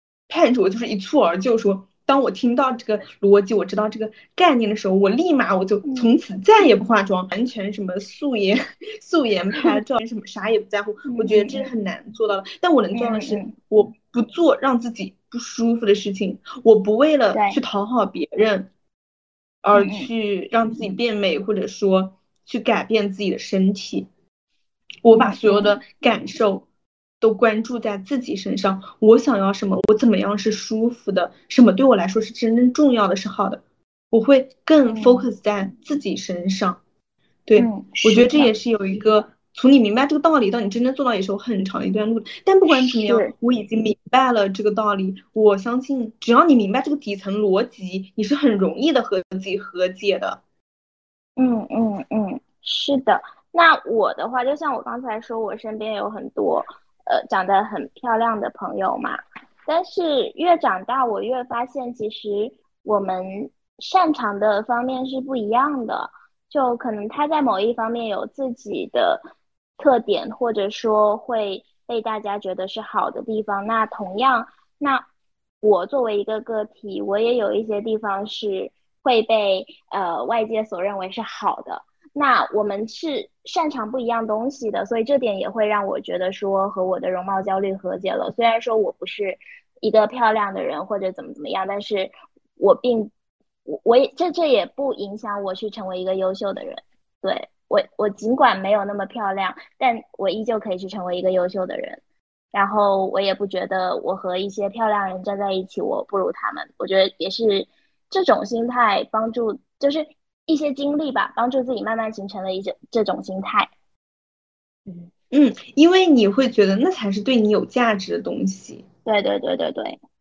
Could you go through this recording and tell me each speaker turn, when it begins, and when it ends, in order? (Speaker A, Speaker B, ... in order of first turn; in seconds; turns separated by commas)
Speaker A: 0.3-18.7, Speaker B: 5.9-6.1, Speaker B: 11.1-11.7, Speaker B: 12.9-13.5, Speaker B: 17.3-17.6, Speaker A: 19.6-24.1, Speaker B: 19.8-20.1, Speaker A: 25.1-26.6, Speaker B: 25.1-25.8, Speaker A: 27.2-33.6, Speaker A: 34.1-36.8, Speaker B: 34.9-35.3, Speaker A: 37.5-50.4, Speaker B: 37.6-38.5, Speaker B: 42.7-43.3, Speaker B: 51.4-69.2, Speaker B: 69.8-75.1, Speaker B: 75.6-93.1, Speaker B: 93.7-102.0, Speaker B: 102.5-113.7, Speaker A: 115.3-118.8, Speaker B: 119.1-120.0